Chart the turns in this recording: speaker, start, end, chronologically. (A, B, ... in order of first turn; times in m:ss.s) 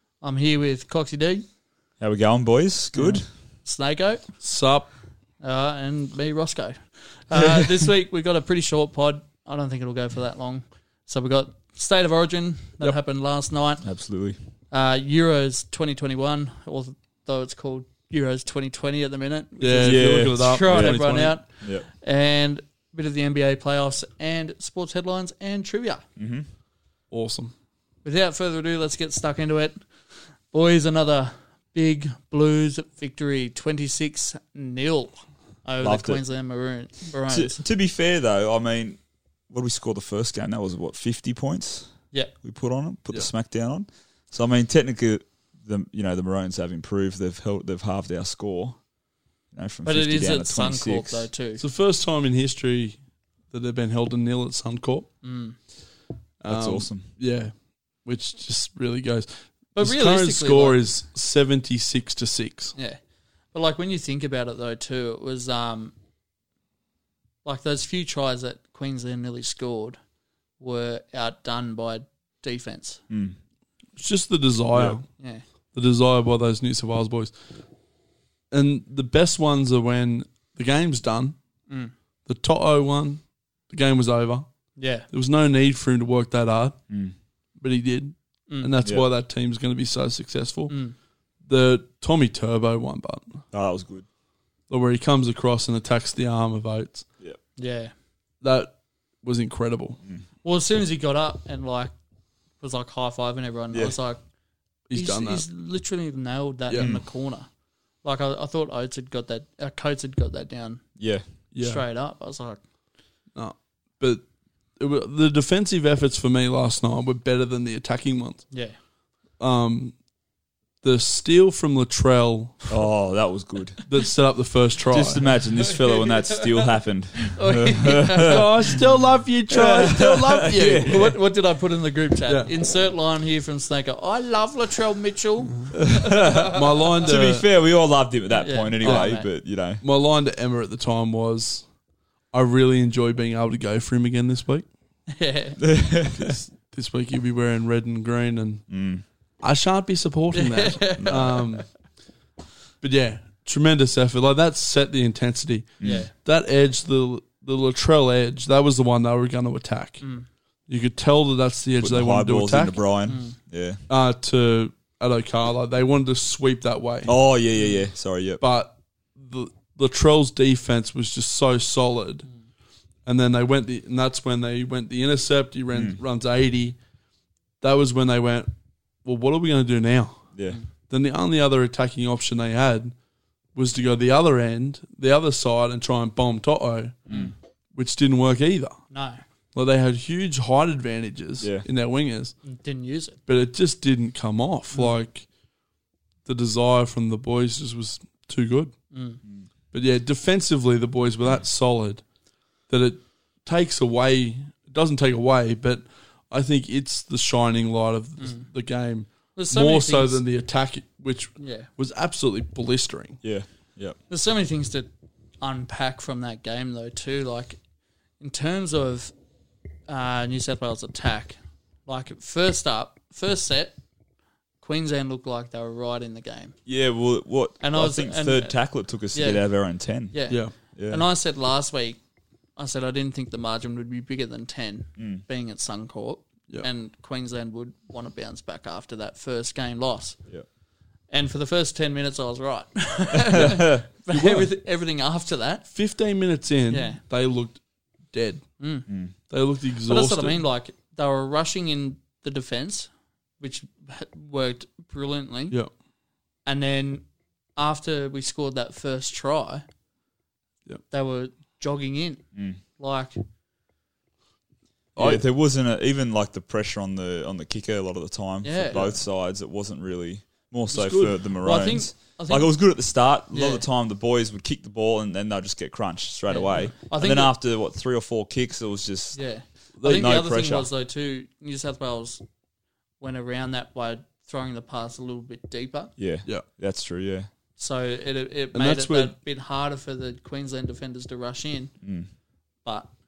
0:00.2-0:01.4 A
0:02.0-0:03.2 B
0:03.0-0:03.2 C
0:03.6-0:04.3 A
0:04.4-0:04.9 C
0:05.4-0:13.9 A
0:07.4-0:07.7 B
0:13.8-0:14.4 B
0:14.7-0:26.0 A
0:19.6-0:21.4 C
0:19.8-0:21.0 B
0:26.2-0:26.5 B
0:27.1-0:27.5 C
0:28.0-0:37.6 A
0:35.8-0:36.2 B
0:37.3-0:48.8 B
0:49.5-0:51.3 B
0:49.8-0:51.6 A
0:51.6-0:53.0 C
0:53.5-0:55.1 C
0:55.2-0:55.6 A
0:56.4-1:02.7 C
0:56.5-0:57.1 B
0:59.8-1:00.8 A
1:02.8-1:03.0 A
1:03.5-1:05.9 A
1:07.4-1:10.0 A
1:10.6-1:13.0 A
1:13.1-1:13.4 B
1:14.0-1:15.0 C
1:14.7-1:15.0 B
1:15.2-1:15.4 A
1:15.7-1:17.3 C
1:18.5-1:21.4 C
1:22.3-1:24.5 C
1:24.8-1:25.1 A
1:25.1-1:26.8 C
1:27.6-1:30.8 C
1:30.7-1:31.0 A
1:31.5-1:33.4 C
1:33.5-1:34.1 B
1:34.7-1:37.1 C
1:37.6-1:37.9 A
1:38.4-1:40.0 C
1:40.4-1:41.9 A
1:42.6-1:44.2 A
1:44.9-1:45.5 C
1:44.9-1:47.5 A
1:46.8-1:47.0 B
1:48.0-1:50.8 A
1:51.0-1:51.2 B
1:51.5-1:51.8 C
1:51.6-1:52.6 A
1:53.4-1:54.2 C
1:54.8-1:58.5 C
1:58.5-1:58.8 A
1:59.4-2:00.0 C
2:00.8-2:02.7 C
2:02.7-2:03.8 B
2:03.9-2:05.3 C
2:04.9-2:08.8 B
2:05.6-2:08.8 A
2:08.3-2:11.0 C
2:09.5-2:11.2 B
2:10.8-2:16.6 A
2:15.8-2:19.8 B
2:16.5-2:17.5 C
2:18.3-2:19.3 A
2:18.8-2:19.2 C
2:19.8-2:21.7 C
2:22.3-2:24.7 C
2:25.1-2:25.7 A
2:25.6-2:26.4 B
2:26.1-2:28.7 C
2:28.7-2:29.0 B
2:29.4-2:31.7 C
2:30.3-2:31.6 A
2:32.8-2:40.0 C
2:35.8-2:36.0 B
2:35.8-2:36.1 A
2:40.0-2:40.3 A
2:40.7-2:42.8 C
2:41.8-2:43.8 B
2:43.1-2:43.4 A
2:43.9-2:47.2 C
2:47.1-2:48.4 B
2:48.4-2:52.3 C
2:53.1-2:56.8 C
2:55.7-2:56.0 B
2:57.6-2:58.5 C
2:59.0-3:00.2 C
3:00.9-3:02.9 C
3:03.6-3:07.1 C
3:07.1-3:07.3 B
3:07.7-3:08.8 C
3:08.9-3:09.2 A
3:09.6-3:12.3 C
3:11.4-3:11.6 B
3:12.5-3:13.2 A
3:13.3-3:15.3 C
3:16.2-3:18.7 C
3:18.9-3:19.2 A
3:19.7-3:22.0 C
3:22.7-3:33.2 C
3:28.2-3:28.5 A
3:29.4-3:30.2 A
3:31.4-3:31.7 A
3:33.2-3:34.0 B
3:34.1-3:34.9 A
3:35.4-3:37.6 A
3:38.2-3:39.1 A
3:39.9-3:43.7 A
3:44.6-3:46.6 A
3:46.7-3:50.2 B
3:47.6-3:48.6 A
3:49.1-3:49.5 A
3:50.1-3:52.0 A
3:50.8-3:51.0 B
3:52.6-4:00.2 A
3:55.0-3:55.2 B
4:01.1-4:05.7 A
4:03.1-4:03.9 B
4:04.1-4:04.5 C
4:05.7-4:08.5 C
4:06.7-4:07.0 A
4:08.6-4:08.9 A
4:09.3-4:10.4 C
4:09.9-4:15.6 A
4:16.4-4:19.6 A
4:20.9-4:22.2 A
4:22.8-4:23.2 A
4:25.0-4:25.2 C
4:25.0-4:39.2 B
4:28.4-4:29.0 A
4:30.7-4:31.2 C
4:31.4-4:32.6 A
4:33.3-4:33.6 A
4:36.3-4:37.3 A
4:39.1-4:42.2 A
4:39.8-4:40.1 C
4:39.8-4:40.7 B
4:43.0-4:45.9 A
4:46.0-4:47.3 B
4:47.6-4:51.7 A
4:48.5-4:49.1 C
4:51.8-4:52.1 B